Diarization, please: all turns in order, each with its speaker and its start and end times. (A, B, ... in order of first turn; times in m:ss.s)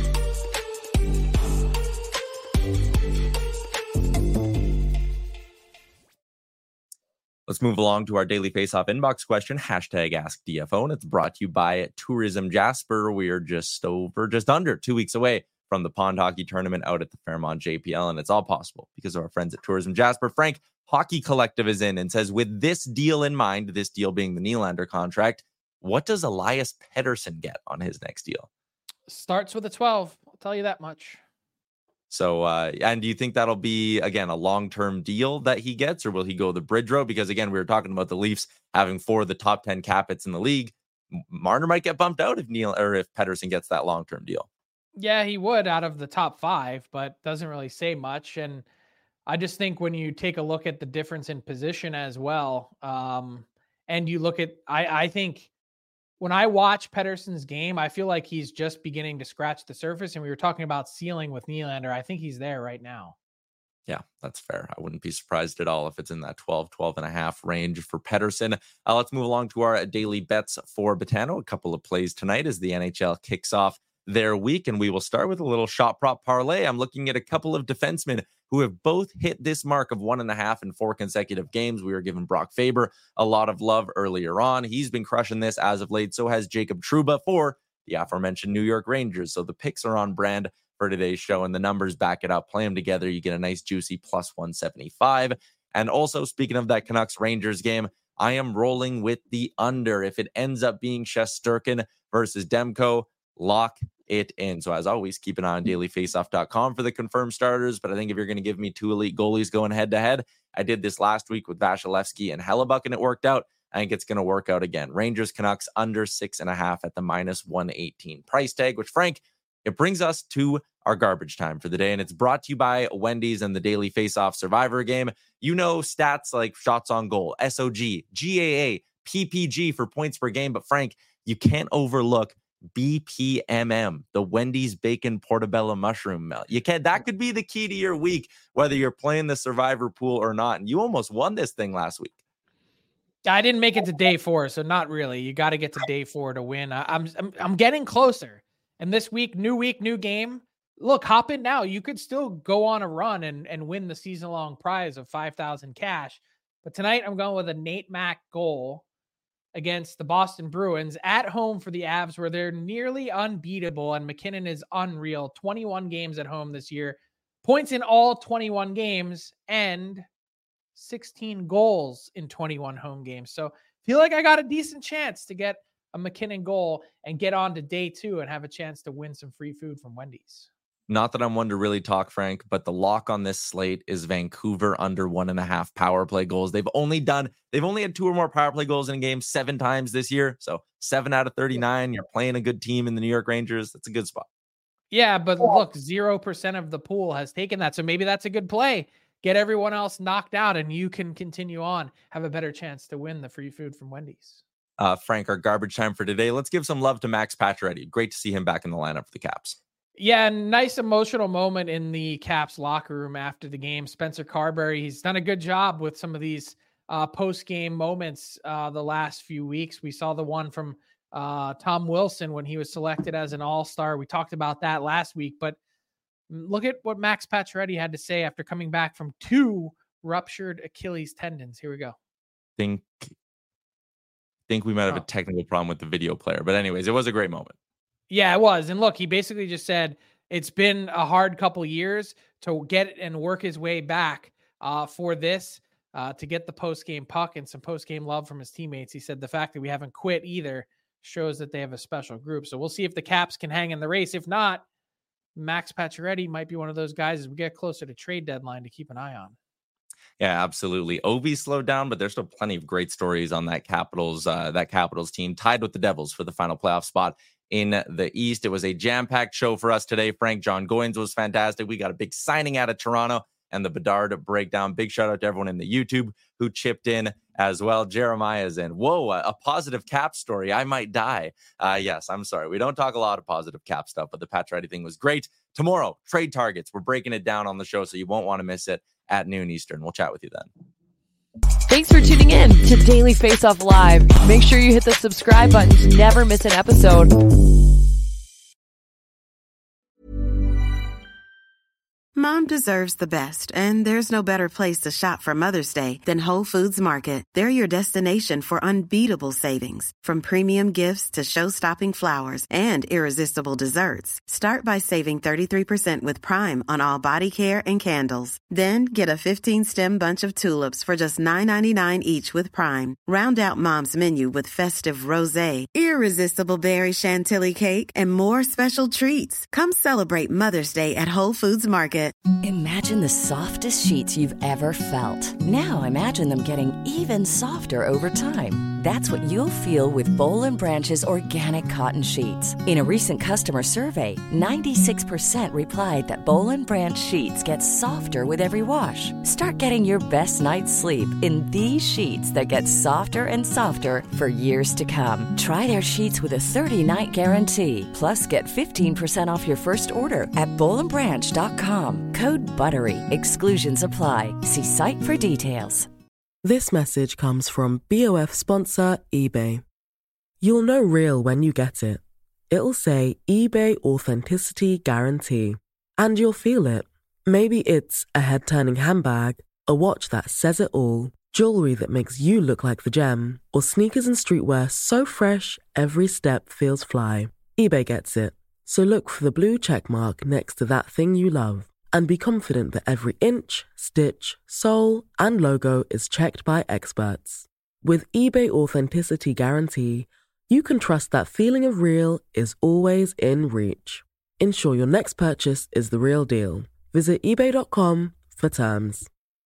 0:07.5-0:28.5 A
0:29.1-0:31.2 B
0:32.1-0:44.5 A
0:45.0-0:48.6 B
0:49.3-0:55.5 B
0:56.2-1:03.2 B
1:03.9-2:22.2 A
2:23.2-2:38.8 B
2:39.5-2:50.1 B
2:50.8-3:00.5 B
3:00.9-3:14.3 A
3:14.9-3:24.4 B
3:24.8-3:29.6 A
3:30.0-3:45.6 B
3:46.3-3:52.0 B
3:52.6-3:53.1 A
3:54.5-3:57.6 A
3:58.1-4:14.6 B
4:15.4-4:19.4 B
4:20.2-4:50.5 A
4:51.7-4:57.1 C
5:02.2-5:32.2 D
5:32.4-6:05.9 E
6:06.4-6:09.6 F
6:10.4-6:49.1 F